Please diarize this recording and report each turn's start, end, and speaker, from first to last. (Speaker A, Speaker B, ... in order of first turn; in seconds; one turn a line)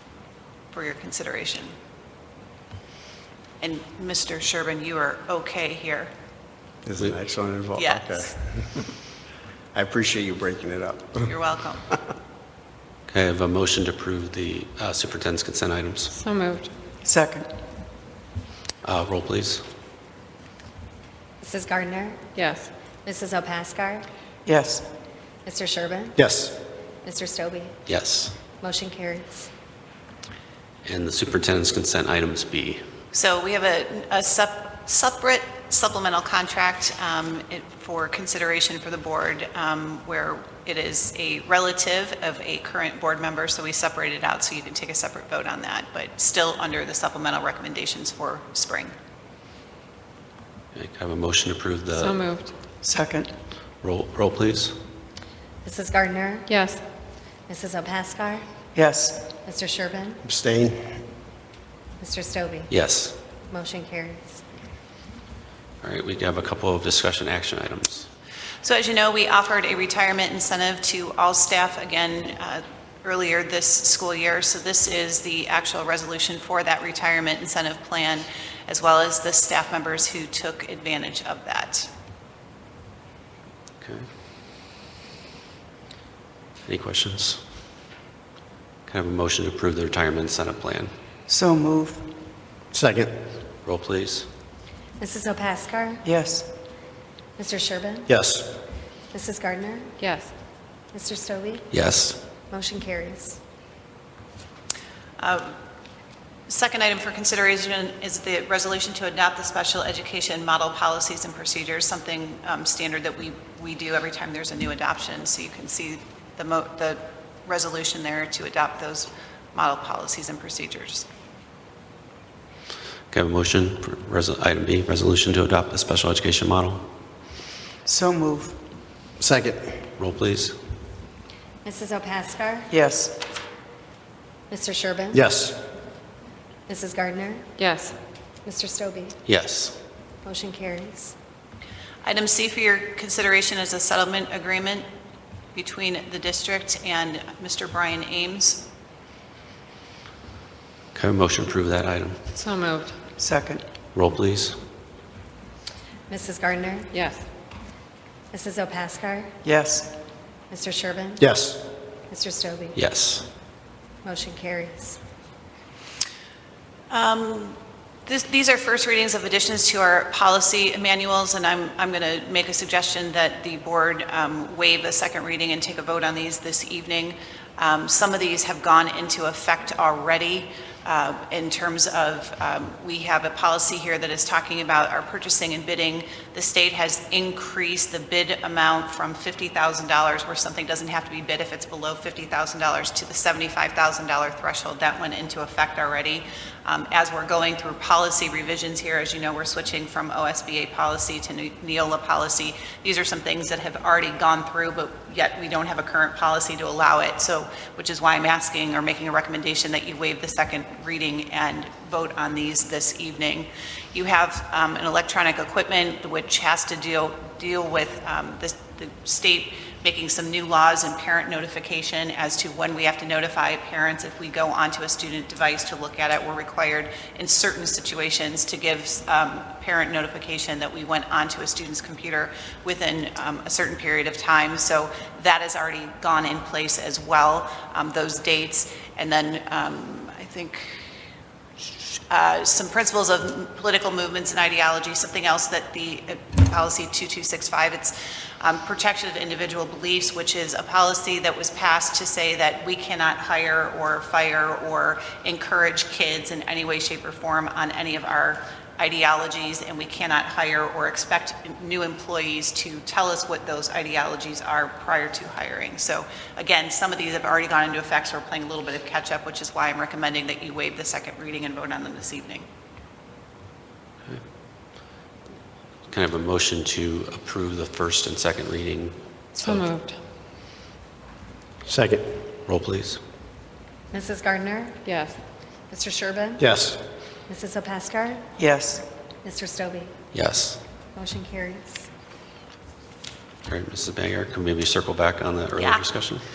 Speaker A: 0.7-1.7
Speaker A: 3.6-6.1
Speaker B: 6.8-8.9
Speaker A: 7.7-8.5
Speaker B: 9.7-11.4
Speaker A: 11.2-11.9
Speaker C: 13.1-16.1
Speaker D: 16.1-16.7
Speaker E: 17.0-17.5
Speaker C: 18.8-19.6
Speaker F: 21.4-22.4
Speaker D: 22.3-22.7
Speaker F: 23.0-24.1
Speaker E: 24.4-24.9
Speaker F: 25.4-26.2
Speaker B: 26.1-26.6
Speaker F: 27.0-27.8
Speaker C: 27.9-28.4
Speaker F: 28.6-29.5
Speaker C: 30.8-32.8
Speaker A: 33.1-48.9
Speaker C: 50.7-52.2
Speaker D: 51.9-52.5
Speaker E: 52.8-53.3
Speaker C: 53.8-54.8
Speaker F: 55.6-56.6
Speaker D: 56.5-56.8
Speaker F: 57.5-58.4
Speaker E: 58.7-59.3
Speaker F: 59.4-60.2
Speaker B: 60.2-61.0
Speaker F: 62.0-62.7
Speaker C: 62.7-63.2
Speaker F: 63.5-64.4
Speaker C: 65.8-68.1
Speaker A: 68.6-81.9
Speaker C: 83.8-84.1
Speaker C: 86.7-87.4
Speaker C: 88.9-90.9
Speaker E: 91.3-92.1
Speaker B: 92.7-93.3
Speaker C: 93.6-94.3
Speaker F: 95.0-96.0
Speaker E: 96.0-96.5
Speaker F: 97.4-98.1
Speaker B: 98.1-98.6
Speaker F: 99.1-100.0
Speaker D: 100.0-100.3
Speaker F: 100.9-101.7
Speaker C: 101.7-102.2
Speaker F: 102.5-103.4
Speaker A: 105.2-105.5
Speaker A: 106.5-121.1
Speaker C: 123.1-126.9
Speaker E: 127.8-128.6
Speaker B: 129.2-129.8
Speaker C: 130.0-130.6
Speaker F: 131.6-132.7
Speaker E: 132.7-133.2
Speaker F: 134.5-135.2
Speaker B: 135.1-135.6
Speaker F: 136.7-137.5
Speaker D: 137.6-137.9
Speaker F: 138.4-139.2
Speaker C: 139.3-139.8
Speaker F: 140.2-141.1
Speaker A: 142.0-144.9
Speaker A: 145.5-148.7
Speaker C: 150.9-152.2
Speaker D: 152.3-153.0
Speaker E: 153.2-153.6
Speaker C: 153.9-154.6
Speaker F: 156.1-156.9
Speaker D: 156.9-157.2
Speaker F: 158.3-159.3
Speaker E: 159.4-160.0
Speaker F: 160.5-161.2
Speaker B: 161.2-161.6
Speaker F: 162.1-162.8
Speaker C: 162.7-163.3
Speaker F: 164.0-165.0
Speaker A: 166.9-240.8
Speaker A: 242.1-272.4
Speaker C: 275.9-279.7
Speaker D: 279.4-279.9
Speaker B: 281.6-282.1
Speaker C: 282.5-283.0
Speaker F: 283.9-284.9
Speaker D: 284.8-285.2
Speaker F: 285.7-286.4
Speaker B: 286.4-286.8
Speaker F: 287.3-288.2
Speaker E: 288.4-288.9
Speaker F: 289.2-289.9
Speaker C: 290.1-290.6
Speaker F: 290.9-291.9
Speaker C: 293.5-296.2
Speaker A: 295.6-295.9